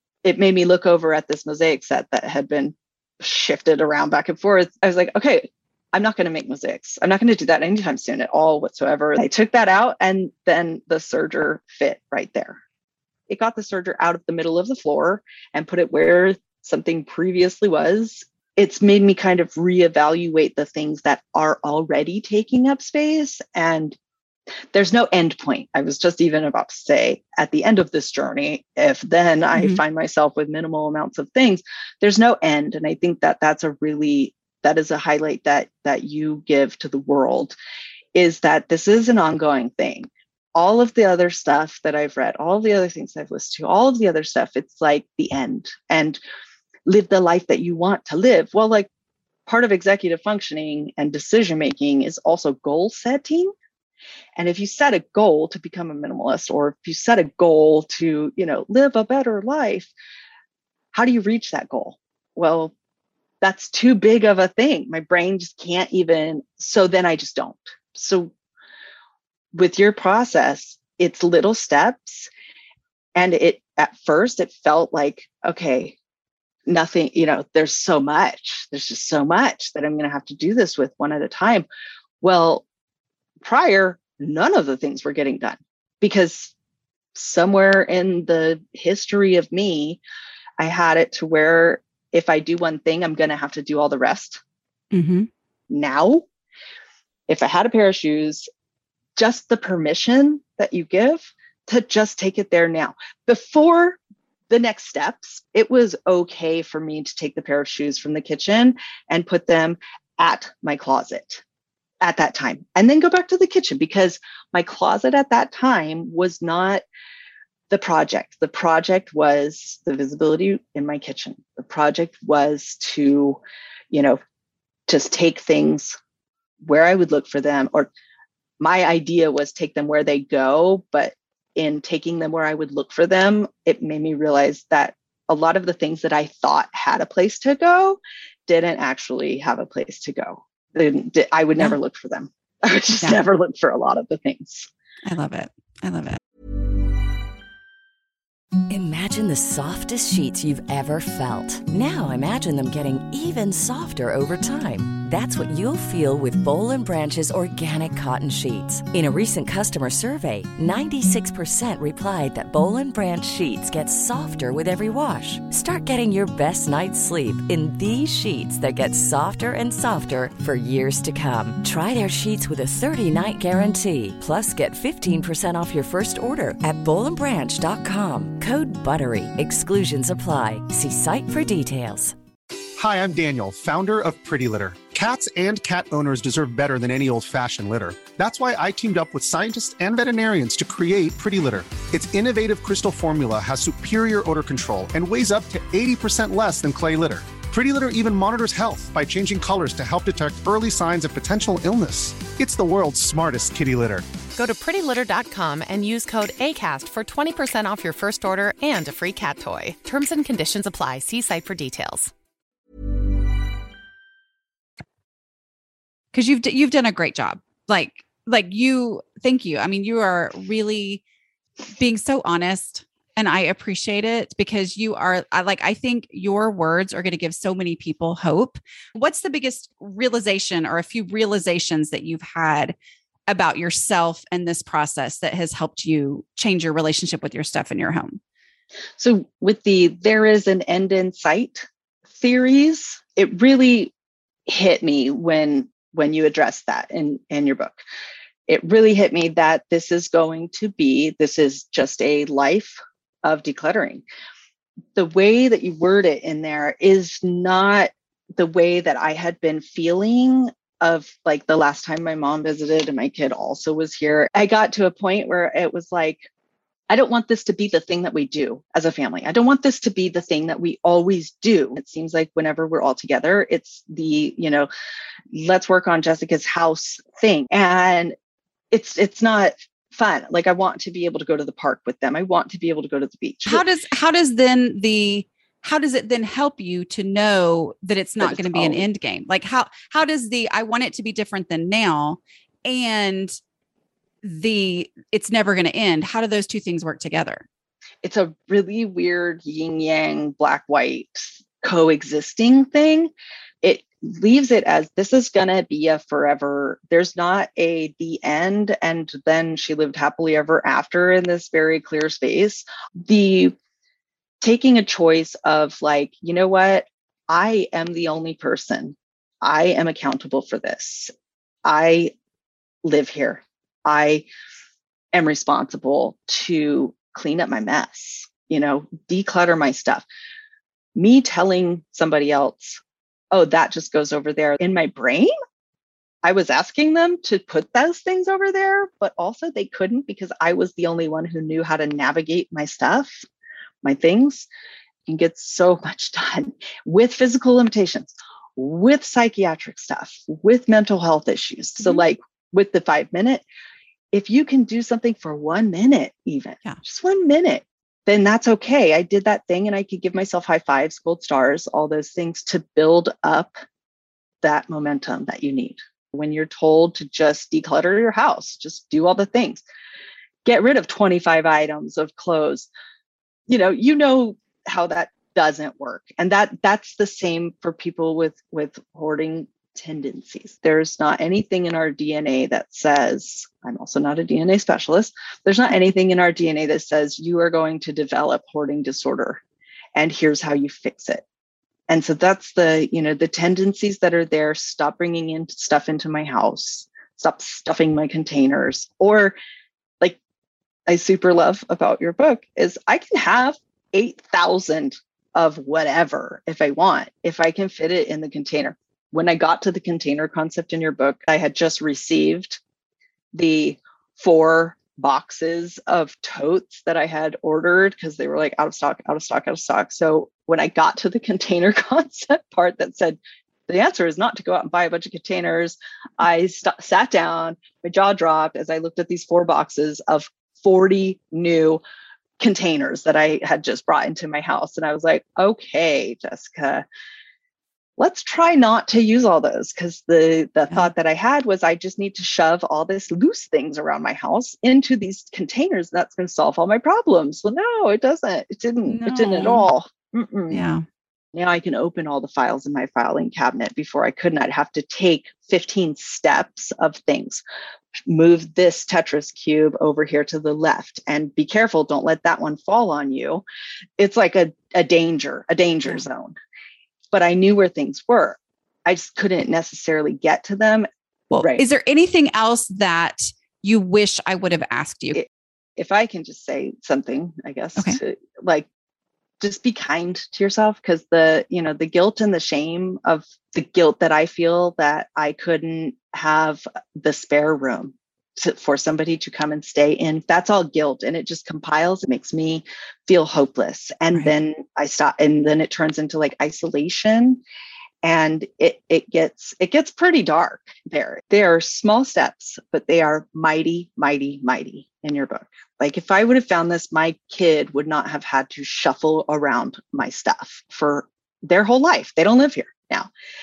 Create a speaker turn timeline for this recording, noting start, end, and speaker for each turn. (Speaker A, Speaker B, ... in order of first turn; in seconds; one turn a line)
Speaker A: 0.2-12.6
Speaker A: 13.3-24.0
Speaker A: 24.7-37.6
Speaker B: 29.6-29.8
Speaker A: 38.1-46.2
Speaker A: 46.9-48.9
Speaker A: 49.5-53.5
Speaker A: 54.4-59.9
Speaker A: 60.9-62.7
Speaker A: 63.4-68.3
Speaker A: 69.5-72.3
Speaker A: 73.2-76.0
Speaker A: 76.7-81.7
Speaker A: 82.2-82.7
Speaker A: 83.4-86.5
Speaker A: 87.2-90.0
Speaker A: 90.6-94.4
Speaker B: 94.9-95.3
Speaker A: 95.7-96.3
Speaker A: 97.3-98.5
Speaker A: 99.2-104.0
Speaker A: 104.5-111.4
Speaker A: 112.0-116.8
Speaker A: 117.7-123.4
Speaker A: 123.9-124.2
Speaker A: 124.9-126.0
Speaker A: 126.6-127.9
Speaker A: 128.6-144.7
Speaker B: 145.1-146.2
Speaker C: 148.7-182.2
Speaker D: 182.8-204.1
Speaker E: 204.3-212.1
Speaker B: 216.1-221.0
Speaker B: 221.8-232.8
Speaker B: 233.3-238.2
Speaker A: 239.0-243.9
Speaker A: 244.5-247.8
Speaker A: 248.5-254.0
Speaker A: 255.0-266.3
Speaker A: 266.9-274.7
Speaker A: 275.3-278.1
Speaker A: 278.7-283.6
Speaker B: 283.5-293.4
Speaker A: 288.2-288.8
Speaker B: 294.2-297.4
Speaker A: 298.0-303.1
Speaker A: 303.6-313.6
Speaker A: 314.4-321.1
Speaker A: 321.6-322.1
Speaker A: 322.8-324.3
Speaker A: 325.1-330.1
Speaker A: 330.9-332.8
Speaker A: 333.3-335.3
Speaker A: 336.2-343.2
Speaker A: 343.8-344.5
Speaker A: 345.1-353.4
Speaker A: 354.1-363.5
Speaker A: 364.4-369.6
Speaker A: 370.4-372.7
Speaker A: 373.5-389.4
Speaker A: 389.9-391.2
Speaker A: 391.9-399.4
Speaker A: 400.9-412.6
Speaker A: 413.3-431.8
Speaker A: 432.4-436.9
Speaker A: 438.0-450.6
Speaker B: 448.9-449.7
Speaker B: 450.5-450.9
Speaker A: 451.3-457.4
Speaker A: 458.1-463.4
Speaker A: 464.0-466.4
Speaker A: 467.1-471.6
Speaker B: 471.3-475.2
Speaker A: 475.1-478.7
Speaker A: 479.4-497.4
Speaker A: 498.0-513.1